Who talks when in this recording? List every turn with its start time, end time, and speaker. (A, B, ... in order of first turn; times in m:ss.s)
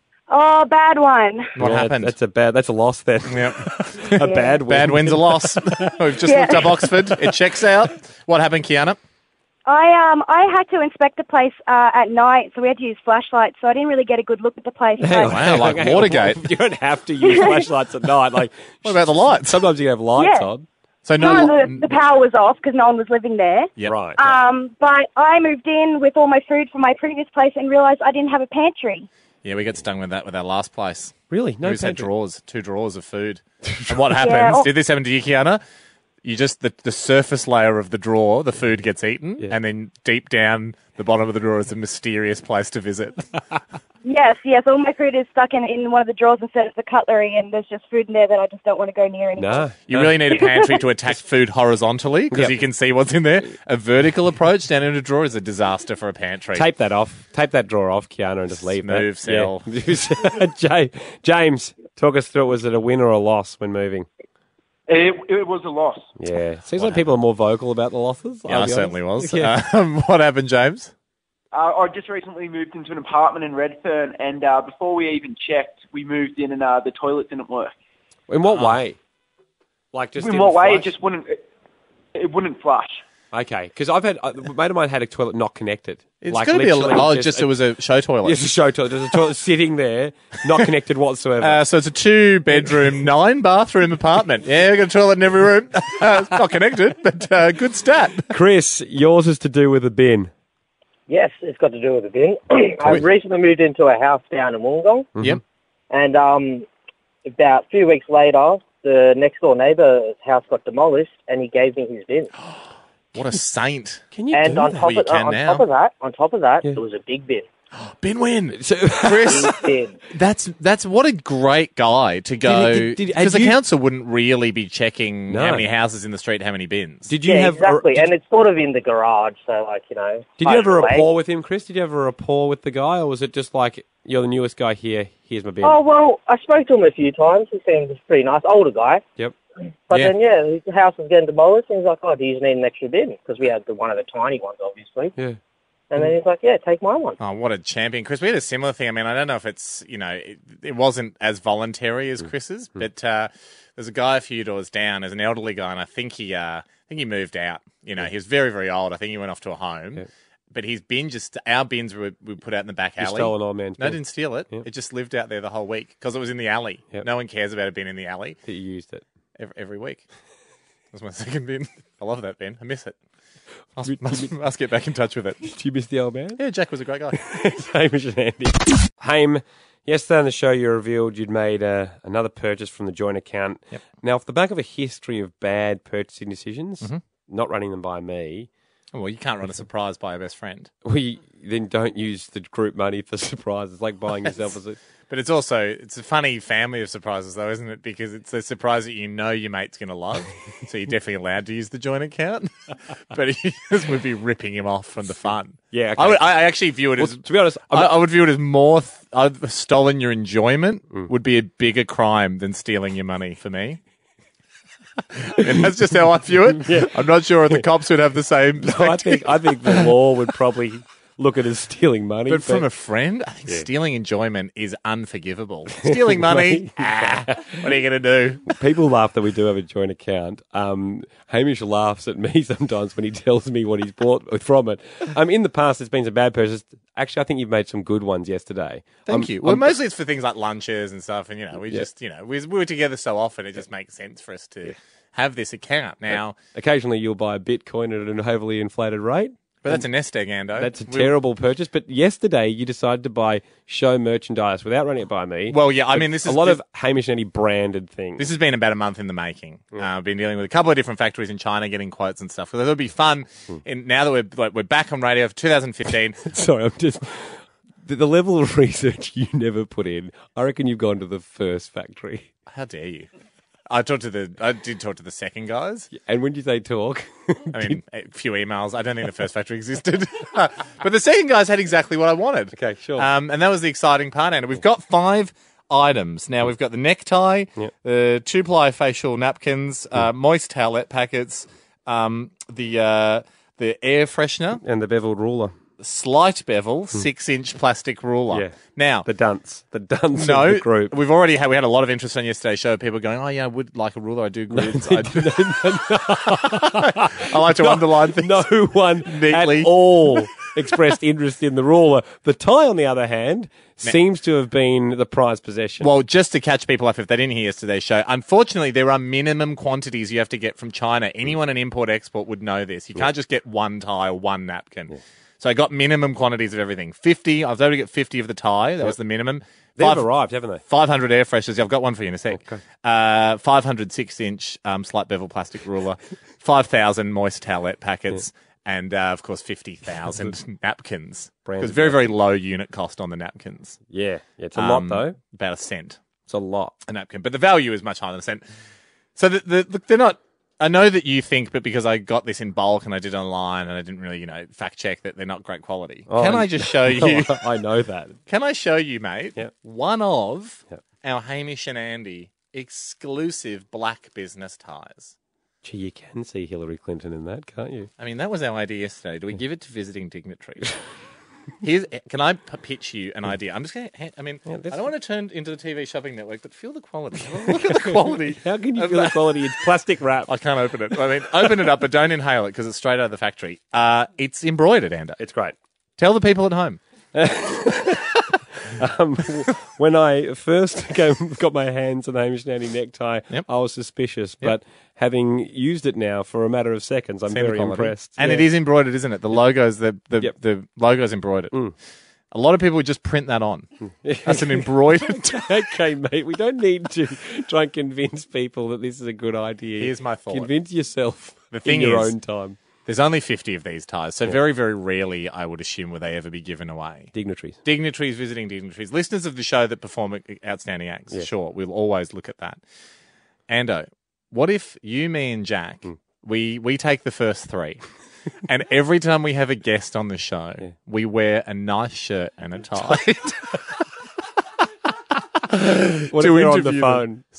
0:00.3-0:01.5 A
0:01.6-0:02.1 B
0:01.6-0:06.0 C
0:03.2-0:09.0 B
0:04.2-0:04.6 A
0:06.2-0:06.7 A
0:06.6-0:07.3 C
0:09.6-0:15.6 A
0:15.0-0:20.6 C
0:15.3-0:16.4 B
0:17.2-0:17.6 A
0:18.8-0:19.6 B
0:20.2-0:20.5 A
0:21.0-0:21.9 B
0:21.2-0:29.1 A
0:23.8-0:24.4 C
0:29.4-0:35.6 B
0:31.3-0:32.1 C
0:33.6-0:34.0 C
0:34.2-0:34.7 A
0:36.2-0:43.3 B
0:44.0-0:49.7 A
0:49.4-0:50.4 C
0:49.9-0:56.7 B
0:52.3-0:52.6 C
0:56.5-1:04.1 C
0:58.8-0:59.7 B
1:04.9-1:06.1 D
1:06.2-1:09.5 C
1:06.8-1:07.1 B
1:08.5-1:10.9 B
1:11.5-1:17.7 D
1:18.3-1:19.0 C
1:18.5-1:18.8 B
1:19.9-1:20.9 C
1:20.2-1:21.4 D
1:22.1-1:23.0 D
1:23.3-1:27.5 C
1:26.2-1:28.4 B
1:28.2-1:31.6 C
1:31.4-1:38.3 B
1:38.3-1:40.3 C
1:41.1-1:45.1 E
1:45.9-1:46.6 E
1:47.3-1:52.3 E
1:53.1-1:54.0 B
1:54.1-1:54.9 C
1:54.3-1:57.5 E
1:54.8-1:55.6 B
1:57.8-1:59.5 B
1:58.6-1:59.6 C
1:59.2-2:00.0 E
2:00.1-2:07.1 B
2:02.4-2:03.6 C
2:05.3-2:05.7 C
2:07.1-2:08.1 C
2:07.2-2:11.0 E
2:10.4-2:15.8 C
2:15.6-2:19.0 E
2:19.9-2:25.1 E
2:25.9-2:27.2 E
2:27.2-2:48.4 B
2:43.0-2:44.6 C
2:48.4-2:49.0 C
2:49.4-2:50.0 B
2:50.9-2:53.0 B
2:53.8-2:55.4 B
2:53.8-2:54.3 C
2:55.4-2:56.4 C
2:56.4-2:57.2 B
2:57.1-3:08.5 C
3:08.9-3:10.7 B
3:10.8-3:14.8 C
3:14.2-3:14.5 B
3:15.1-3:33.8 B
3:25.7-3:28.0 C
3:35.1-3:39.9 B
3:36.6-3:37.0 C
3:38.6-3:42.6 C
3:42.3-3:48.5 B
3:45.7-3:47.5 C
3:48.5-3:59.8 C
3:59.1-4:06.4 B
4:06.5-4:09.8 C
4:09.6-4:11.1 B
4:10.6-4:18.3 C
4:15.5-4:16.6 B
4:18.2-4:26.2 B
4:26.2-4:32.3 C
4:32.5-4:33.1 B
4:33.7-4:35.9 B
4:35.9-4:37.8 C
4:37.5-4:54.6 B
4:42.5-4:43.1 C
4:54.6-4:55.5 C
4:55.8-4:59.1 B
4:58.3-5:00.9 C
5:00.2-5:05.5 B
5:04.5-5:15.9 C
5:06.1-5:08.5 B
5:09.0-5:10.3 B
5:15.8-5:30.1 B
5:29.8-5:30.6 C
5:30.6-5:43.8 B
5:32.3-5:32.6 C
5:41.4-5:42.1 C
5:43.9-5:45.2 C
5:44.5-5:46.0 B
5:46.3-5:46.7 C
5:46.8-5:48.4 B
5:49.2-5:57.4 B
5:56.1-5:58.2 C
5:58.3-6:05.1 B
6:05.6-6:07.9 C
6:08.0-6:10.7 B
6:11.6-6:19.4 B
6:14.5-6:14.8 C
6:17.5-6:20.3 C
6:20.3-6:25.2 B
6:25.2-6:25.5 C
6:26.0-6:26.8 B
6:27.1-6:38.5 C
6:37.3-6:41.5 B
6:42.3-6:43.7 B
6:44.0-6:52.6 C
6:44.2-6:45.5 B
6:49.8-6:50.5 B
6:51.5-6:52.1 B
6:52.8-6:57.1 B
6:57.1-6:57.6 C
6:57.6-7:02.6 B
7:03.5-7:07.8 B
7:08.4-7:13.7 B
7:15.5-7:17.1 B
7:16.0-7:17.2 C